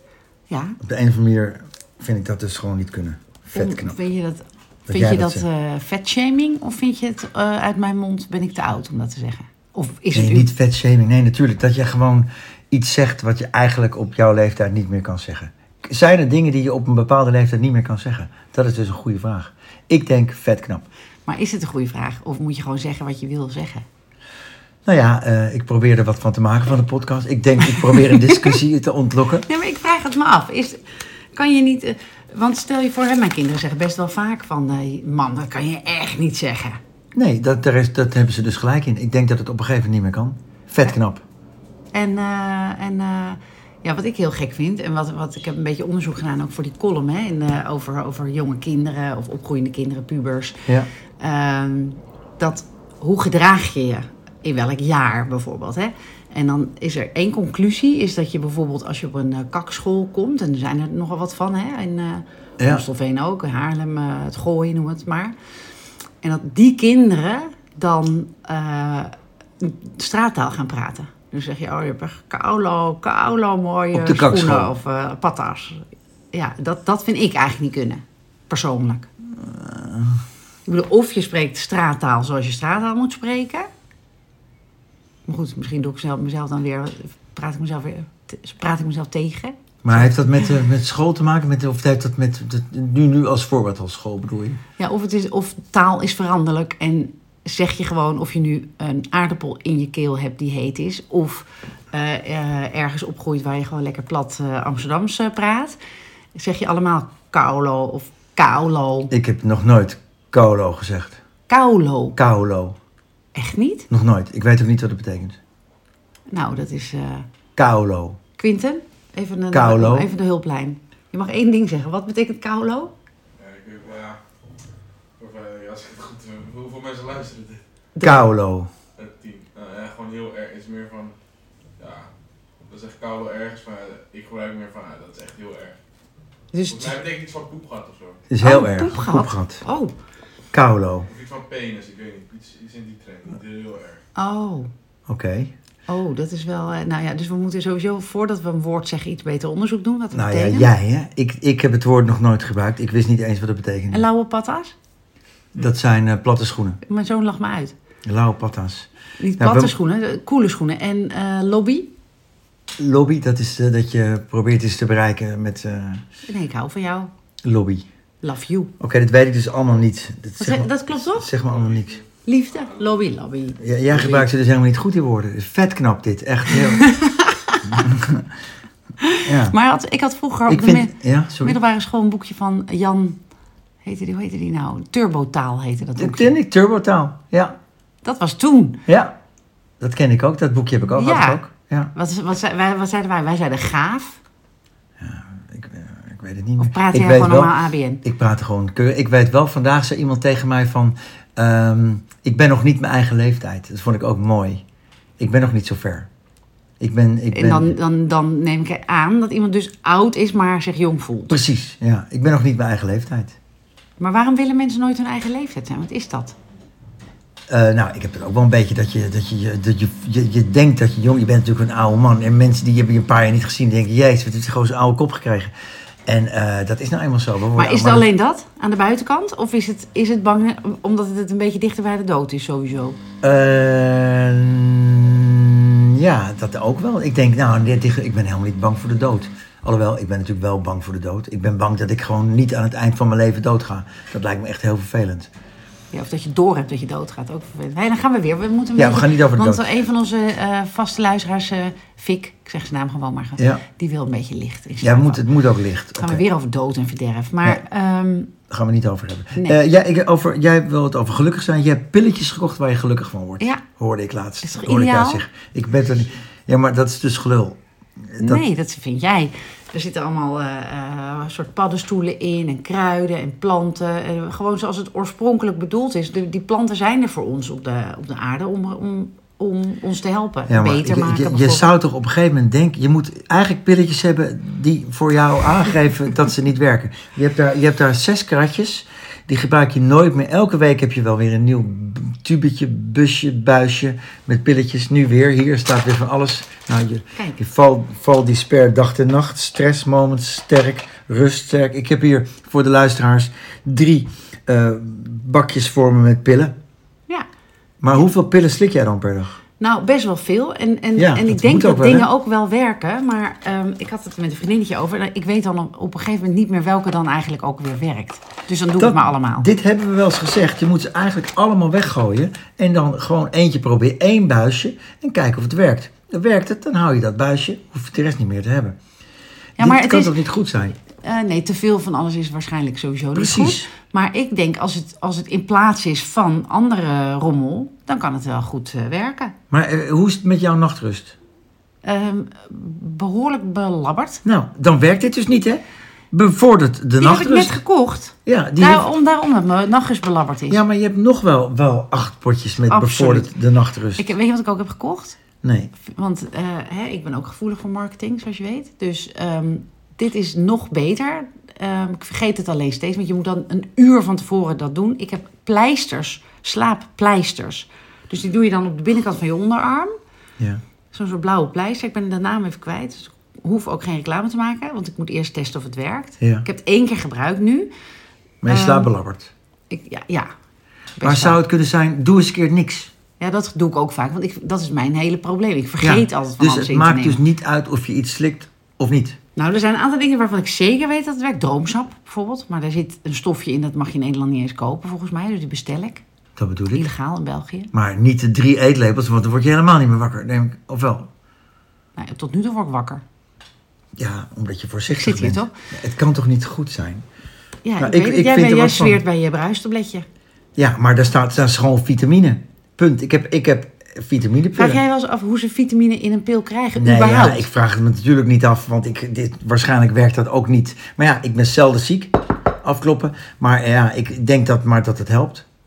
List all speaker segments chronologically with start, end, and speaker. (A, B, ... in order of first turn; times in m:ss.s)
0:00.5-0:00.8 A
0:00.8-0:04.0 B
0:03.5-0:10.5 A
0:04.9-0:05.4 B
0:10.1-0:20.8 B
0:21.3-0:23.8 A
0:24.8-0:29.5 B
0:27.7-0:28.6 A
0:29.4-0:30.8 A
0:31.3-0:36.8 A
0:37.2-0:41.2 B
0:41.9-0:50.6 A
0:51.2-1:05.3 A
1:02.6-1:02.8 B
1:06.2-1:19.1 A
1:13.9-1:14.7 B
1:19.3-1:20.2 B
1:20.7-1:23.7 A
1:25.3-1:30.5 A
1:29.8-1:34.6 B
1:34.8-1:45.8 A
1:46.4-1:49.1 A
1:49.1-1:51.2 B
1:51.5-1:52.2 A
1:52.2-1:52.8 B
1:53.4-1:53.9 A
1:53.9-1:55.4 B
1:56.3-1:57.3 A
1:57.6-1:58.2 B
1:58.4-2:02.9 A
1:59.5-2:00.1 B
2:03.4-2:04.2 C
2:05.2-2:07.6 C
2:08.0-2:08.3 A
2:08.0-2:08.7 B
2:09.0-2:11.1 C
2:11.8-2:12.1 C
2:12.7-2:15.8 C
2:16.5-2:17.0 A
2:16.7-2:18.2 C
2:18.3-2:19.6 B
2:18.4-2:19.9 A
2:20.5-2:21.1 B
2:21.1-2:24.0 C
2:24.2-2:24.7 A
2:25.1-2:25.5 B
2:25.9-2:30.7 A
2:30.1-2:34.1 B
2:33.9-2:34.7 A
2:35.6-2:36.8 B
2:36.8-2:37.7 A
2:38.0-2:39.7 B
2:39.2-2:41.9 A
2:42.8-2:46.1 B
2:46.3-2:47.1 A
2:47.4-2:47.9 B
2:48.2-2:48.7 A
2:48.8-2:52.0 B
2:50.4-2:51.3 A
2:51.4-2:52.8 C
2:52.3-2:54.3 A
2:53.6-2:56.9 B
2:56.5-2:57.9 A
2:57.7-2:58.3 B
2:59.0-3:03.2 A
2:59.2-2:59.6 B
3:00.5-3:01.6 B
3:03.8-3:06.4 A
3:06.0-3:07.6 B
3:08.0-3:08.8 A
3:08.9-3:09.2 B
3:09.8-3:11.9 B
3:11.0-3:11.4 A
3:12.0-3:14.2 A
3:15.0-3:24.6 B
3:16.6-3:18.0 A
3:25.2-3:26.1 B
3:26.8-3:27.7 B
3:27.3-3:31.4 A
3:31.3-3:33.4 B
3:34.0-3:36.4 A
3:37.5-3:45.5 B
3:46.1-3:48.1 B
3:47.6-3:53.0 A
3:53.2-4:05.3 B
4:05.9-4:15.3 A
4:08.8-4:09.7 B
4:13.4-4:13.6 B
4:14.8-4:16.2 B
4:15.9-4:18.3 A
4:18.5-4:28.4 B
4:24.4-4:25.2 A
4:28.2-4:41.7 A
4:40.5-5:06.5 B
5:07.8-5:09.4 B
5:09.6-5:19.5 A
5:11.0-5:12.1 B
5:18.8-5:28.8 B
5:29.6-5:30.2 A
5:29.6-5:30.8 B
5:31.0-5:39.4 A
5:33.2-5:33.7 B
5:39.5-5:41.2 B
5:41.8-5:44.2 A
5:44.2-5:47.6 B
5:47.0-5:50.6 A
5:48.3-5:48.8 B
5:50.5-5:54.0 B
5:52.7-5:53.3 A
5:54.0-5:55.2 A
5:55.4-5:55.7 B
5:55.8-6:09.9 A
6:10.9-6:17.7 A
6:16.2-6:16.5 B
6:18.4-6:19.3 B
6:18.5-6:18.9 A
6:19.7-6:20.3 A
6:21.0-6:21.4 A
6:21.0-6:22.9 B
6:23.2-6:27.2 A
6:25.8-6:29.2 B
6:29.4-6:36.0 A
6:36.4-6:36.9 B
6:36.7-6:37.7 A
6:37.7-6:41.1 B
6:42.0-6:43.0 A
6:44.0-6:47.0 B
6:44.9-6:45.5 A
6:47.6-6:50.1 A
6:47.8-6:49.0 B
6:50.6-6:54.8 B
6:54.6-6:57.5 A
6:56.8-7:05.4 B